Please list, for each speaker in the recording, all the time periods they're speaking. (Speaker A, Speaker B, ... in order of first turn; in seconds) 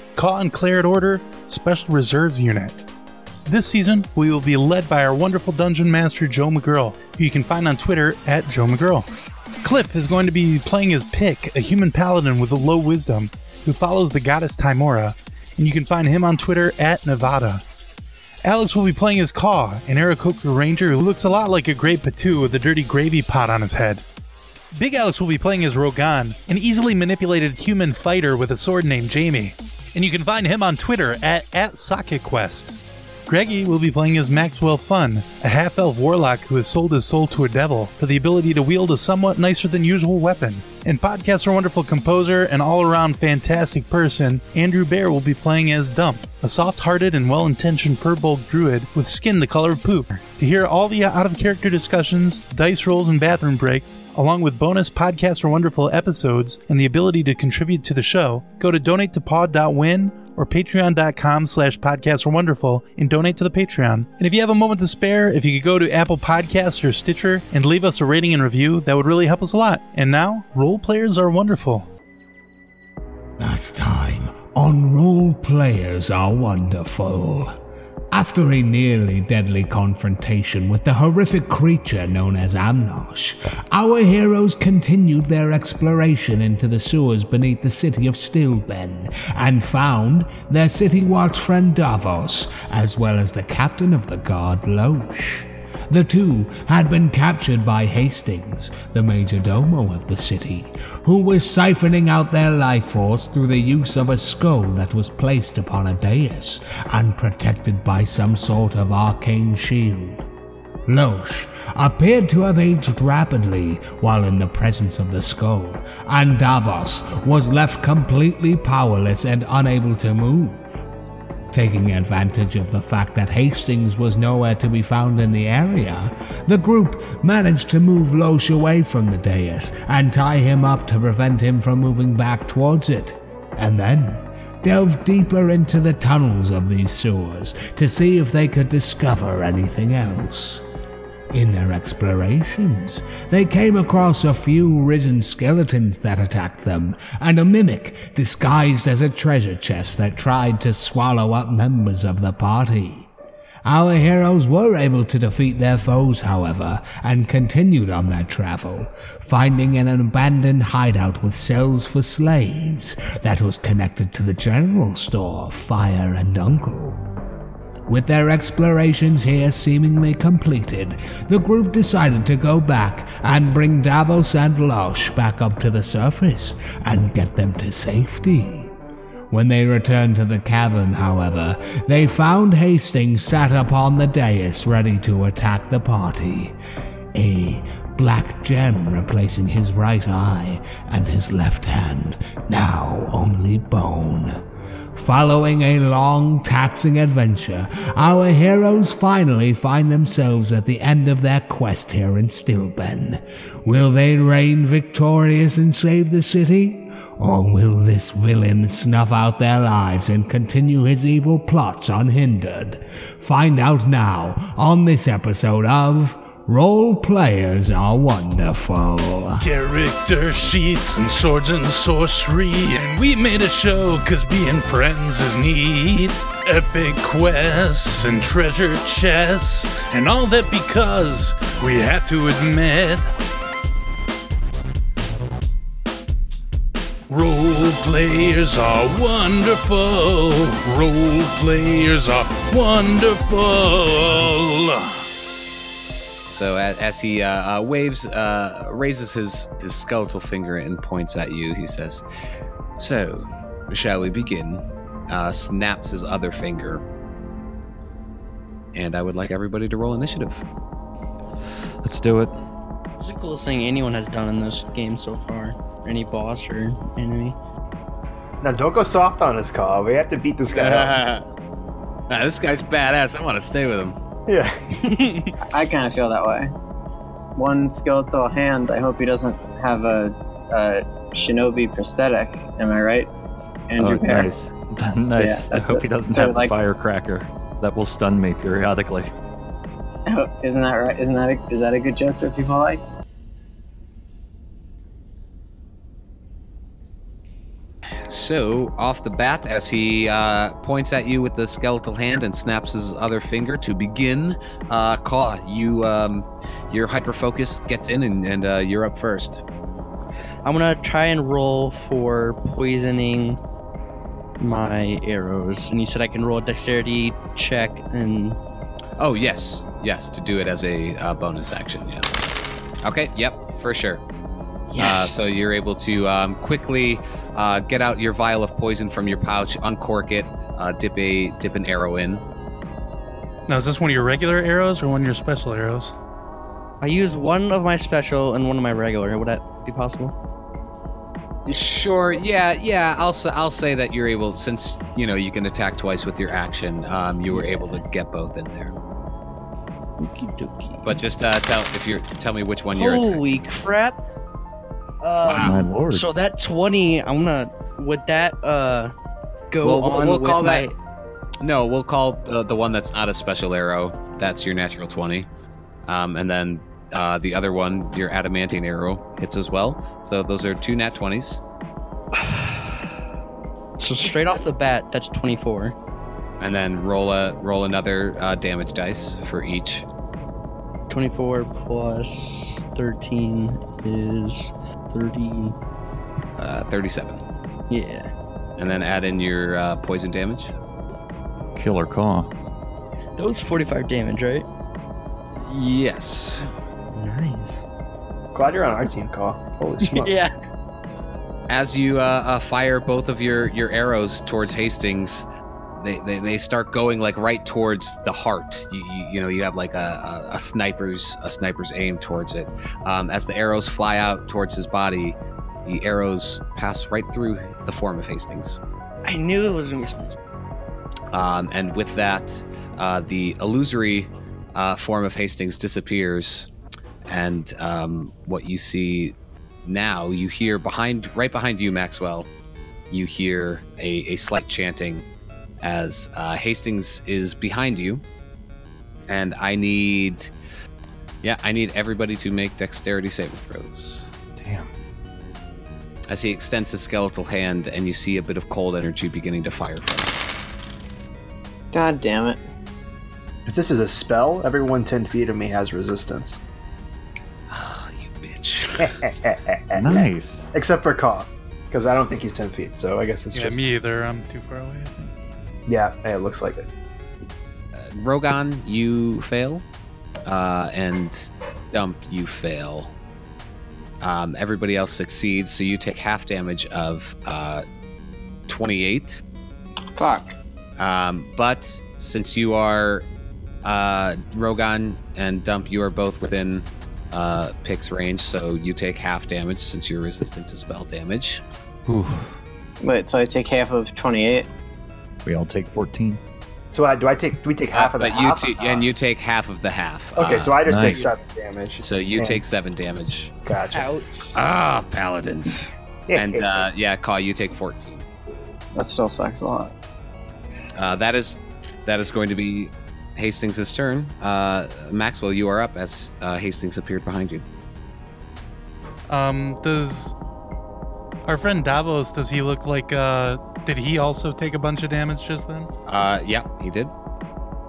Speaker A: 0.2-2.9, 3.5-9.1, 9.6-17.6, 18.4-24.0, 24.7-71.9, 219.4-233.1, 237.1-245.1, 333.5-335.9, 463.3-465.1, 519.1-520.1, 521.3-525.7
Speaker B: 73.4-77.5, 78.1-110.2, 110.9-120.7, 121.5-140.7, 141.3-153.1, 153.7-167.0, 167.9-178.7, 179.3-186.6, 187.2-194.4, 194.9-219.5
Speaker C: 246.3-252.0, 252.8-256.8, 258.7-260.4, 270.5-271.3, 272.1-274.0, 298.1-309.4, 319.0-322.1, 322.8-324.0, 324.8-332.2, 341.5-348.7, 350.8-353.2, 355.2-355.7, 359.6-360.7, 361.4-365.3, 365.9-371.4, 376.4-379.9, 386.4-387.2, 388.6-390.5, 395.4-396.5, 401.5-405.3, 405.8-418.6, 421.1-426.5, 427.1-432.3, 432.9-435.0, 435.6-438.0, 439.1-440.3, 441.2-444.1, 446.1-450.2, 457.5-459.0, 467.8-469.6, 470.3-472.9, 474.0-477.6, 478.5-479.2, 480.8-483.1, 483.6-491.4, 497.7-500.6, 501.8-503.3, 504.3-508.1, 510.8-517.5, 525.9-526.9
Speaker D: 261.8-262.4, 283.8-289.1, 355.4-356.1, 391.6-392.3, 444.4-444.7, 459.8-460.5, 491.9-492.3, 495.2-496.2, 500.7-501.0
Speaker E: 263.0-267.4, 274.9-275.3, 310.4-313.4, 314.4-318.4, 324.7-325.2, 336.8-340.2, 347.3-347.8, 350.0-351.0, 352.7-354.0, 355.0-358.9, 359.5-360.8, 372.1-372.9, 373.8-375.8, 380.9-385.6, 387.7-388.1, 393.2-394.5, 396.9-397.6, 399.8-400.3, 419.1-420.1, 503.7-504.3
Speaker F: 268.4-271.0, 274.3-275.0, 398.3-400.1, 453.5-456.4, 458.8-463.6, 465.7-466.7, 496.7-498.9, 500.2-502.4, 503.5-503.9, 506.1-506.7
Speaker G: 275.5-276.5, 277.4-283.1, 283.7-284.3, 285.1-286.6, 290.1-292.8, 451.7-452.4, 480.0-480.4, 492.8-494.5, 508.8-509.7